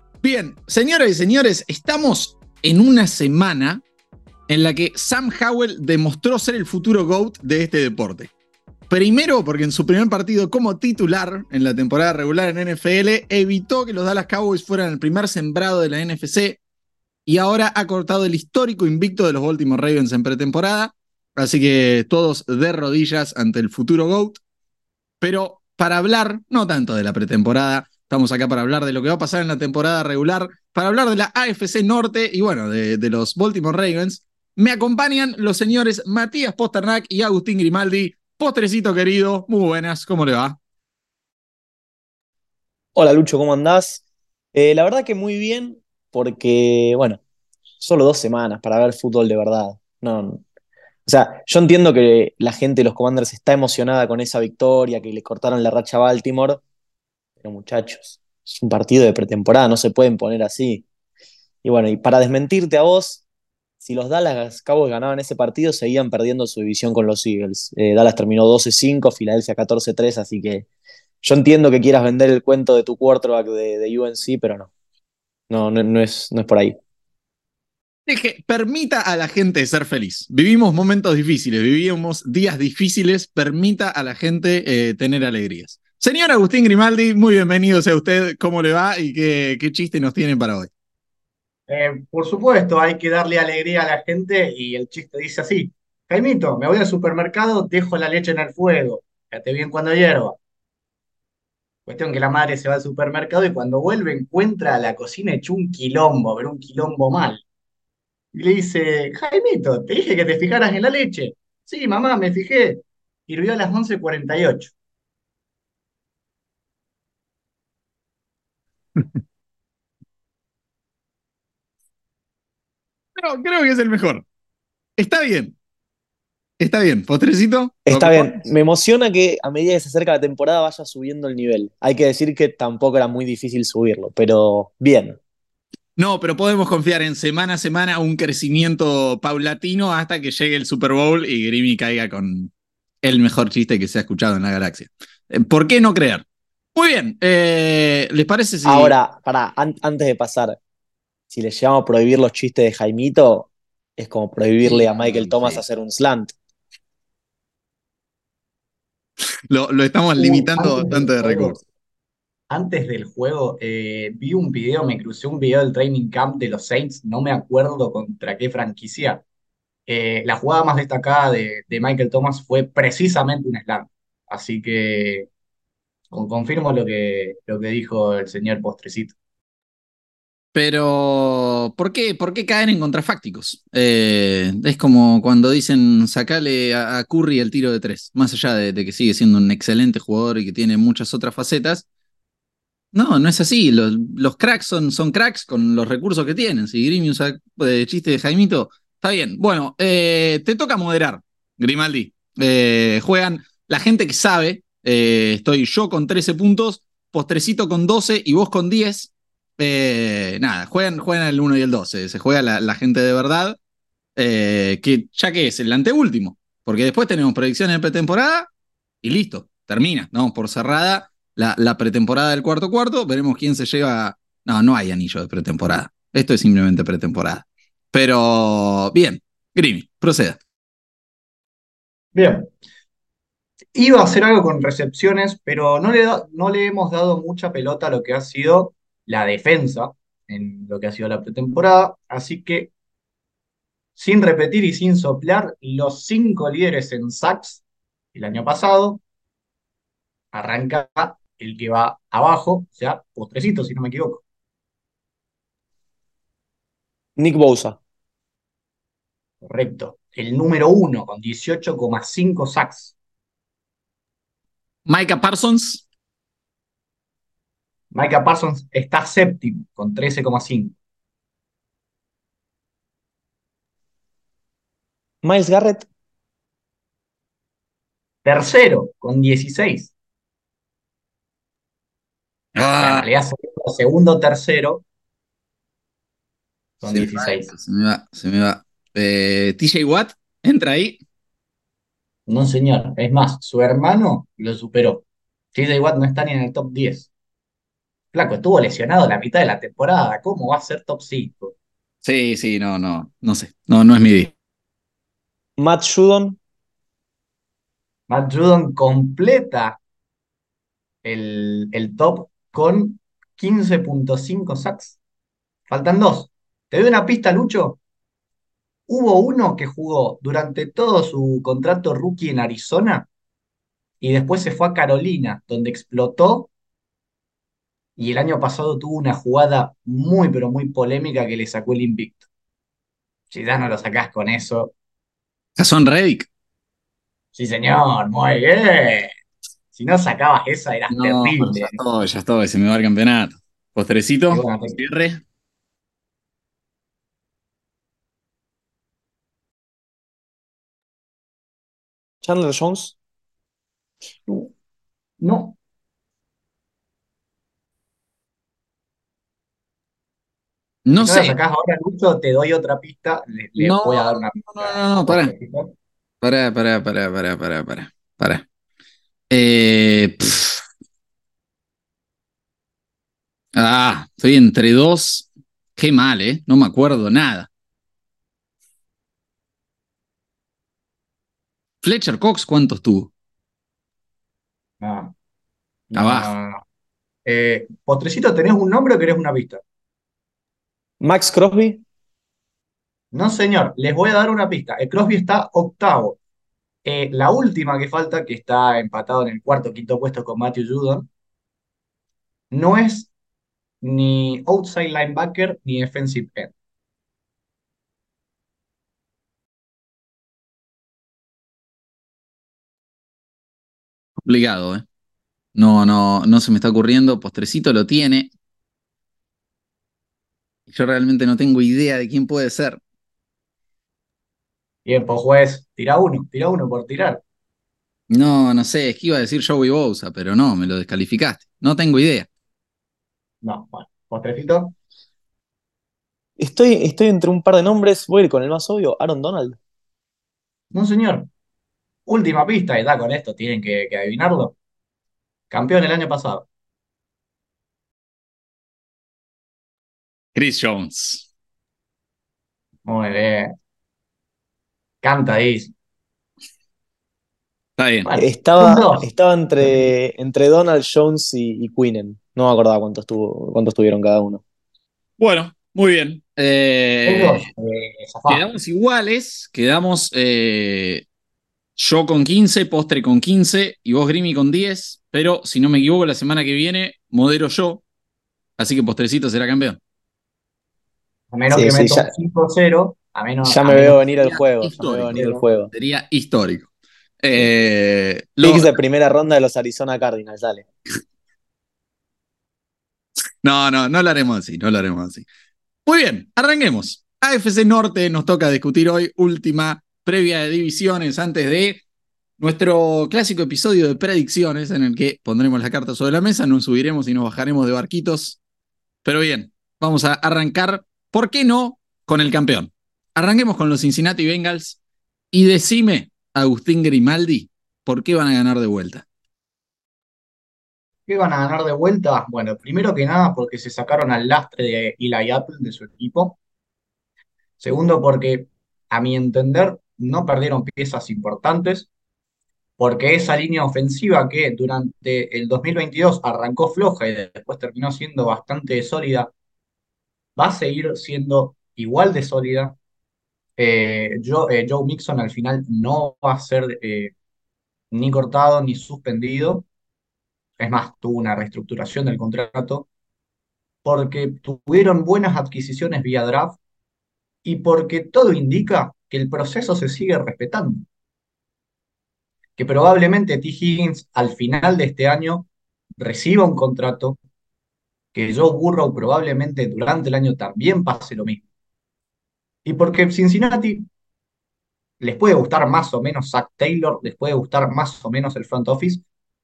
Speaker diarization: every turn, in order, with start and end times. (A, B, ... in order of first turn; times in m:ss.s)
0:00.2-0:03.8 A
0:04.5-0:08.3 A
0:08.9-0:16.6 A
0:17.2-0:24.4 A
0:25.2-0:40.6 A
0:42.9-0:44.0 B
0:44.5-0:47.2 B
0:47.8-0:50.4 B
0:51.0-0:56.6 B
0:57.4-1:00.8 B
1:01.6-1:03.2 B
1:03.8-1:10.7 B
1:11.2-1:14.7 B
1:15.5-1:16.8 B
1:18.1-1:30.7 A
1:31.7-1:40.4 C
1:41.8-1:47.4 C
1:48.3-1:54.7 C
2:03.2-2:04.2 A
2:05.0-2:05.6 A
2:06.6-2:08.5 A
2:07.9-2:15.2 B
2:16.0-2:22.5 A
2:23.0-2:28.9 A
2:28.6-2:30.6 B
2:31.3-2:36.3 B
2:34.6-2:35.6 A
2:39.5-2:41.6 A
2:40.2-2:41.6 C
2:42.5-2:49.2 C
2:49.9-2:55.3 C
2:56.1-2:59.1 C
3:00.5-3:11.8 A
3:12.9-3:33.6 A
3:34.2-3:38.5 A
3:39.0-3:50.4 A
3:52.1-3:52.5 C
3:53.7-4:02.7 C
4:04.0-4:07.6 C
4:08.1-4:09.0 C
4:10.3-4:14.2 C
4:17.2-4:17.8 B
4:19.4-4:22.9 C
4:24.8-4:25.8 A
4:27.9-4:30.8 C
4:35.2-4:35.8 B
4:38.2-4:39.9 C
4:42.6-4:43.0 A
4:42.8-4:44.8 C
4:46.8-4:47.5 C
4:46.9-4:51.0 A
4:52.3-4:57.1 C
4:58.1-5:01.5 C
5:02.0-5:04.3 A
5:05.6-5:06.4 B
5:08.1-5:09.8 C
5:11.0-5:15.0 C
5:15.7-5:17.8 C
5:18.9-5:23.1 C
5:24.0-5:26.5 C
5:28.0-5:32.2 C
5:33.3-5:34.7 C
5:35.6-5:36.3 A
5:37.3-5:39.1 C
5:39.7-5:41.8 C
5:40.9-5:45.2 A
5:44.3-5:44.8 C
5:52.2-5:53.0 B
5:55.2-5:55.6 C
6:00.8-6:01.4 A
6:01.0-6:05.7 C
6:03.6-6:05.3 A
6:06.2-6:08.4 A
6:09.3-6:10.6 A
6:13.5-6:17.5 A
6:21.8-6:23.1 A
6:24.8-6:25.1 C
6:25.9-6:26.6 C
6:25.9-6:26.3 A
6:27.2-6:29.6 C
6:31.0-6:31.8 B
6:33.1-6:36.2 C
6:36.8-6:41.1 C
6:42.5-6:43.1 C
6:43.8-6:46.5 C
6:54.2-6:54.8 A
6:55.5-6:58.3 A
7:00.7-7:02.8 A
7:04.8-7:07.2 C
7:08.1-7:12.3 A
7:13.4-7:14.7 C
7:16.4-7:19.6 B
7:20.7-7:21.3 C
7:22.1-7:24.6 C
7:25.5-7:26.4 C
7:30.3-7:31.3 A
7:32.8-7:33.5 C
7:35.0-7:35.7 C
7:37.8-7:38.1 A
7:38.0-7:39.1 C
7:38.2-7:44.4 B
7:45.2-7:47.5 A
7:47.0-7:48.4 C
7:48.3-7:51.0 A
7:51.8-7:57.8 A
7:58.6-7:59.8 A
8:01.3-8:04.0 C
8:01.5-8:02.1 B
8:03.4-8:05.7 B
8:04.2-8:06.7 A
8:05.1-8:05.4 C
8:07.2-8:08.7 A
8:08.4-8:10.7 B
8:13.4-8:15.2 A
8:15.8-8:21.8 A
8:22.4-8:28.4 A
8:29.0-8:34.8 A
8:35.3-8:39.0 A
8:41.1-8:46.4 C
8:47.6-8:51.9 C
8:52.8-8:59.3 C
9:00.4-9:02.8 C
9:03.6-9:07.1 C
9:07.9-9:09.7 C
9:10.6-9:12.9 C
9:13.8-9:16.6 C
9:17.4-9:20.9 C
9:22.6-9:27.2 C
9:28.1-9:31.4 C
9:32.6-9:33.9 C
9:35.0-9:39.0 C